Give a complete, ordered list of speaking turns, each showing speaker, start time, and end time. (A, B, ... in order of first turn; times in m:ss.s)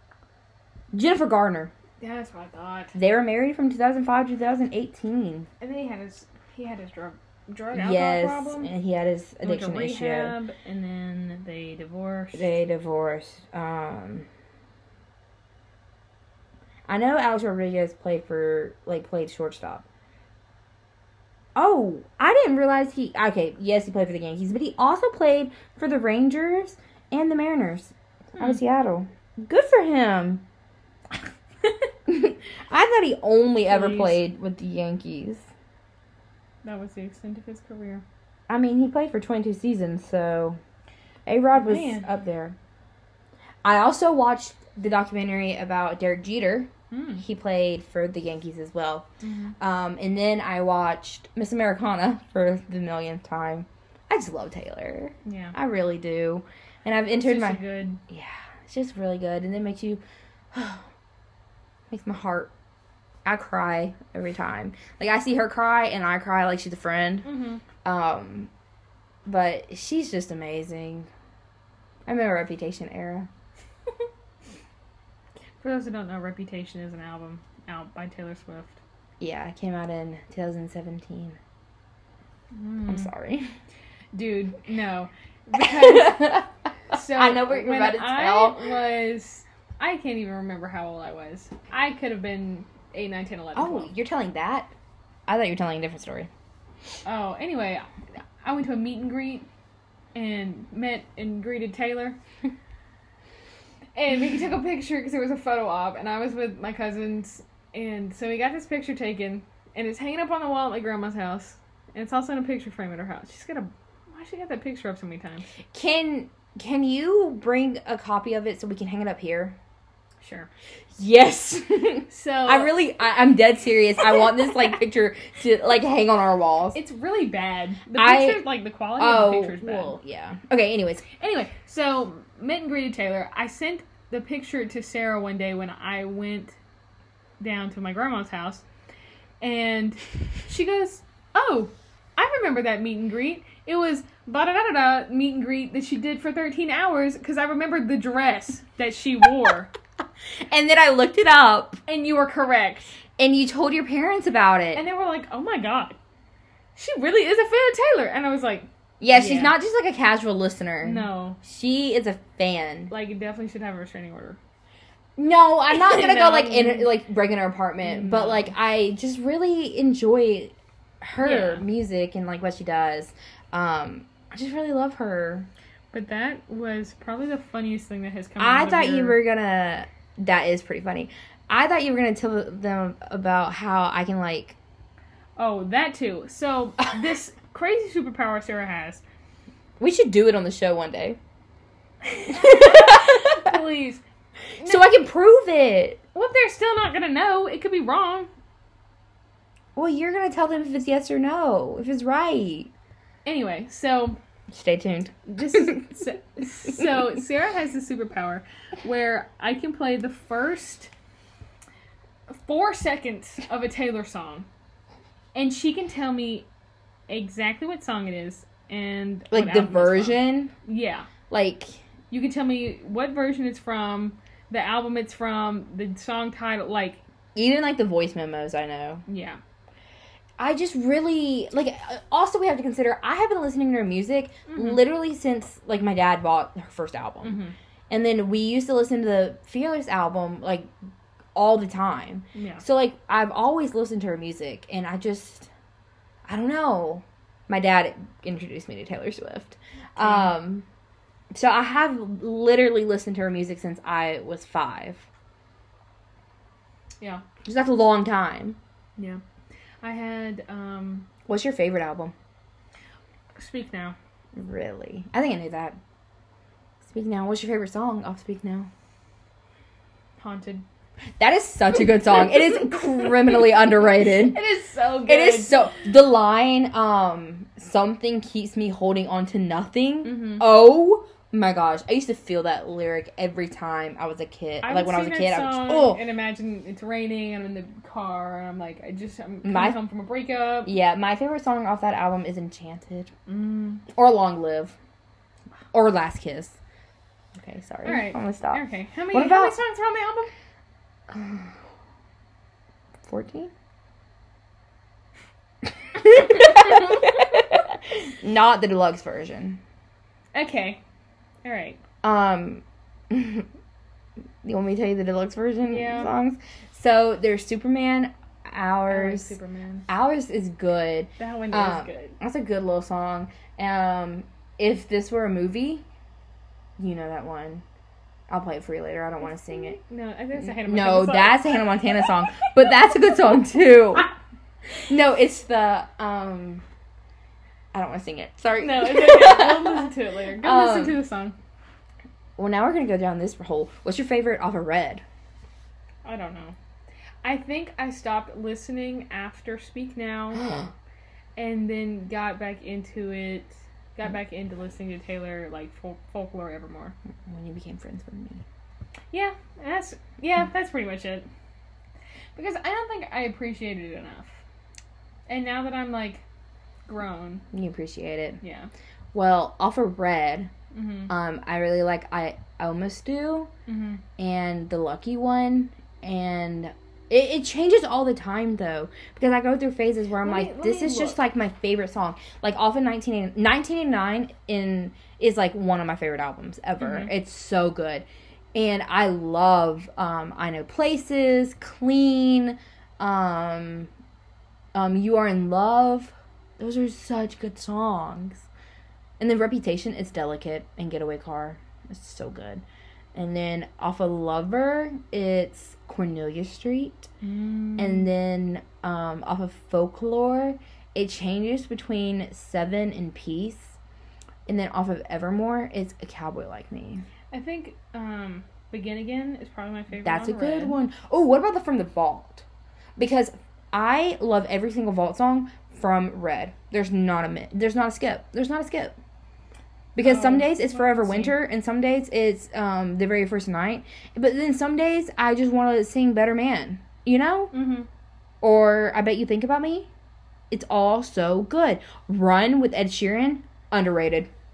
0:00.9-0:01.7 A
0:02.0-0:03.0 B
0:03.0-0:05.5 A
0:05.6-0:08.7 B
0:07.7-0:10.4 A
0:09.4-0:12.5 B
0:12.3-0:14.3 A
0:16.9-0:19.9 A
0:21.6-0:30.4 A
0:32.1-0:35.5 A
0:33.7-0:34.2 B
0:36.6-0:38.0 B
0:38.5-0:40.6 A
0:41.3-0:42.6 A
0:41.5-0:42.1 B
0:43.6-0:49.1 A
0:46.9-0:47.2 B
0:49.2-0:49.5 B
0:49.6-1:00.0 A
0:55.2-0:55.6 B
0:57.1-0:58.0 B
1:00.5-1:00.8 A
1:01.9-1:02.5 A
1:03.2-1:07.3 A
1:07.2-1:07.6 B
1:07.8-1:08.5 A
1:09.3-1:11.1 A
1:12.1-1:13.3 A
1:15.6-1:18.8 B
1:19.2-1:21.4 A
1:22.5-1:23.1 B
1:22.9-1:23.5 A
1:24.1-1:33.9 B
1:25.6-1:28.7 A
1:33.6-1:34.7 A
1:35.3-1:36.3 A
1:37.0-1:37.9 B
1:38.4-1:39.5 B
1:40.2-1:42.2 B
1:44.0-1:55.5 B
1:55.7-1:59.6 A
2:00.2-2:00.5 B
2:01.0-2:06.8 A
2:02.1-2:02.7 B
2:06.7-2:10.0 B
2:08.0-2:08.4 A
2:09.0-2:11.1 A
2:11.2-2:16.6 B
2:17.4-2:18.6 B
2:19.4-2:29.7 B
2:30.5-2:31.8 A
2:31.9-2:33.0 B
2:33.2-2:34.8 A
2:34.7-2:36.0 B
2:36.8-2:39.6 B
2:39.0-2:42.9 A
2:40.8-2:41.4 B
2:42.9-2:44.4 B
2:45.2-2:55.5 A
2:45.7-2:46.9 B
2:47.8-2:48.5 B
2:51.2-2:51.6 B
2:55.9-2:59.2 B
2:58.4-3:04.6 A
3:05.4-3:09.0 B
3:09.8-3:11.2 A
3:12.1-3:14.0 B
3:12.3-3:13.6 A
3:14.6-3:14.9 B
3:14.6-3:16.0 A
3:16.2-3:18.3 B
3:19.8-3:22.7 A
3:23.2-3:24.2 B
3:24.5-3:25.8 A
3:25.3-3:30.9 B
3:32.4-3:34.5 B
3:35.4-3:36.5 B
3:37.1-3:41.1 B
3:39.3-3:40.5 A
3:41.3-3:41.8 A
3:42.1-3:47.0 B
3:47.4-3:49.0 A
3:49.1-3:49.4 B
3:50.4-3:57.4 A
3:54.5-3:54.8 B
3:57.2-3:57.6 B
3:57.9-4:00.7 A
4:01.4-4:05.5 A
4:02.4-4:02.6 B
4:06.3-4:10.6 A
4:10.0-4:10.4 B
4:11.3-4:15.1 A
4:17.4-4:18.6 A
4:19.8-4:21.1 B
4:21.3-4:22.1 A
4:23.4-4:24.0 B
4:24.4-4:25.8 A
4:26.8-4:28.7 A
4:30.2-4:30.6 B
4:31.2-4:34.4 A
4:34.0-4:35.7 B
4:35.1-4:46.0 A
4:40.0-4:40.4 B
4:44.6-4:50.7 B
4:49.4-4:49.8 A
4:50.6-4:53.1 A
4:53.3-4:53.9 B
4:53.9-4:54.8 A
4:55.7-4:56.6 A
4:57.4-4:59.6 A
4:57.8-5:00.3 B
5:01.1-5:01.5 A
5:03.0-5:03.5 A
5:05.9-5:09.6 A
5:10.3-5:10.8 B
5:11.4-5:11.8 B
5:12.0-5:13.5 A
5:14.4-5:19.3 A
5:15.7-5:16.1 B
5:18.9-5:19.9 B
5:19.9-5:25.8 A
5:21.2-5:22.2 B
5:26.8-5:27.6 A
5:28.3-5:29.8 A
5:29.2-5:31.5 B
5:30.4-5:34.1 A
5:34.9-5:36.6 A
5:37.7-5:41.0 A
5:38.6-5:41.4 B
5:42.4-5:45.0 A
5:46.0-5:46.6 B
5:47.2-5:50.6 B
5:50.3-5:50.7 A
5:51.4-5:57.0 B
5:57.3-5:58.4 A
5:59.1-6:01.3 B
6:02.4-6:04.4 B
6:05.3-6:06.2 B
6:06.9-6:07.4 B
6:07.5-6:08.4 A
6:08.4-6:08.7 B
6:09.1-6:10.5 A
6:10.7-6:11.1 B
6:11.1-6:13.5 A
6:13.7-6:14.0 B
6:14.2-6:33.9 A
6:20.2-6:21.2 B
6:26.8-6:27.1 B
6:34.7-6:38.5 A
6:39.2-6:42.6 A
6:43.2-6:47.1 A
6:47.2-6:48.1 B
6:47.8-6:53.8 A
6:54.5-6:57.0 A
6:57.3-7:00.8 B
7:00.0-7:02.4 A
7:03.0-7:09.0 A
7:10.0-7:17.5 A
7:10.0-7:11.4 B
7:17.5-7:17.9 B
7:18.4-7:19.9 A
7:20.5-7:24.3 A